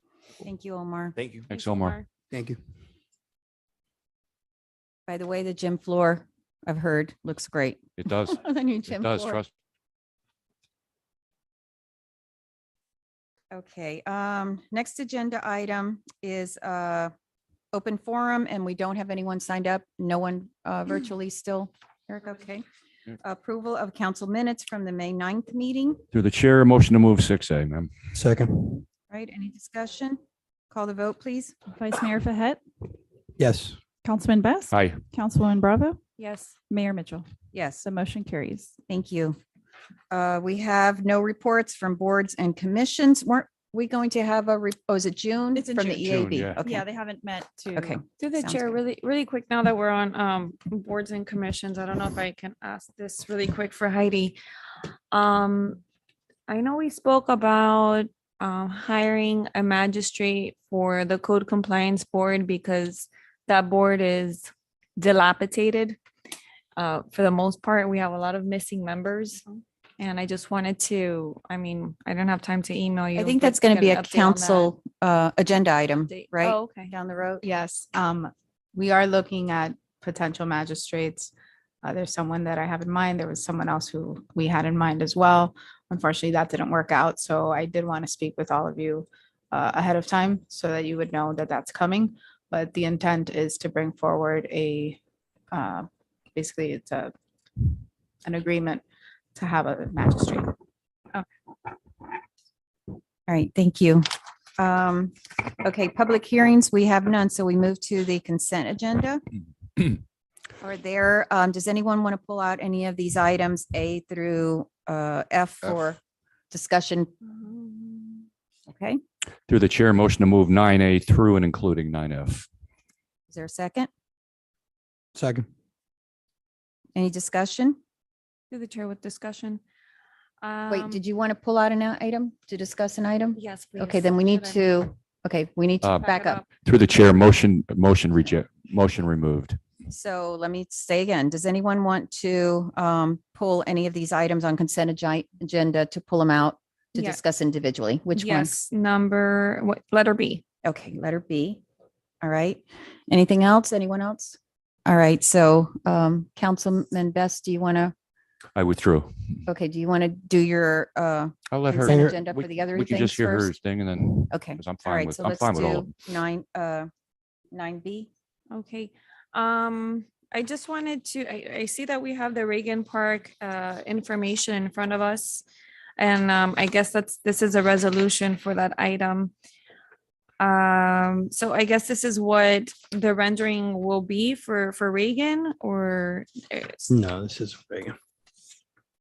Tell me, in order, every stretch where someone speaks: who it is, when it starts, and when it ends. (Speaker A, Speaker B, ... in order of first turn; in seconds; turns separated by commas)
Speaker A: 0.4-1.2, Speaker B: 1.5-2.0, Speaker C: 1.5-2.1, Speaker D: 2.3-2.6, Speaker A: 5.1-9.4, Speaker B: 8.0-9.5, Speaker A: 13.5-17.1, Speaker A: 17.7-22.6, Speaker A: 23.2-26.0, Speaker B: 26.1-27.9, Speaker D: 28.1-28.8, Speaker A: 29.1-30.2, Speaker A: 30.7-31.6, Speaker E: 31.7-32.6, Speaker D: 33.4-33.8, Speaker E: 34.0-36.0, Speaker B: 34.7-35.0, Speaker C: 36.2-36.5, Speaker E: 36.7-37.3, Speaker A: 37.5-37.8, Speaker E: 37.8-38.8, Speaker A: 38.9-39.4, Speaker A: 40.1-46.9, Speaker E: 45.6-48.0, Speaker B: 46.3-46.6, Speaker A: 47.7-48.8, Speaker C: 48.2-54.4, Speaker C: 55.1-55.8, Speaker C: 56.5-66.0, Speaker C: 66.8-69.5, Speaker C: 70.0-74.7, Speaker A: 73.2-77.5, Speaker C: 76.1-76.9, Speaker F: 77.4-81.3, Speaker F: 81.8-95.0, Speaker F: 95.5-97.7, Speaker F: 98.2-98.8, Speaker F: 99.3-100.5, Speaker A: 103.3-109.2, Speaker A: 110.6-116.0, Speaker A: 116.5-117.1, Speaker C: 117.2-118.3, Speaker A: 118.7-119.0, Speaker B: 119.5-122.5, Speaker A: 123.3-123.9, Speaker D: 125.2-125.5, Speaker A: 127.0-127.8, Speaker C: 128.5-129.6, Speaker C: 130.4-131.0, Speaker A: 130.7-136.4, Speaker C: 133.4-134.7, Speaker B: 135.8-136.1, Speaker C: 136.0-136.5, Speaker B: 136.6-139.6, Speaker A: 139.9-148.7, Speaker C: 148.2-150.4, Speaker A: 150.6-151.6, Speaker A: 152.2-157.9, Speaker B: 158.6-159.4, Speaker A: 159.5-163.5, Speaker B: 161.5-165.9, Speaker D: 161.8-162.1, Speaker A: 164.3-166.9, Speaker A: 167.5-168.1, Speaker C: 168.5-175.4, Speaker C: 176.0-179.3, Speaker C: 180.4-186.9, Speaker D: 186.9-187.9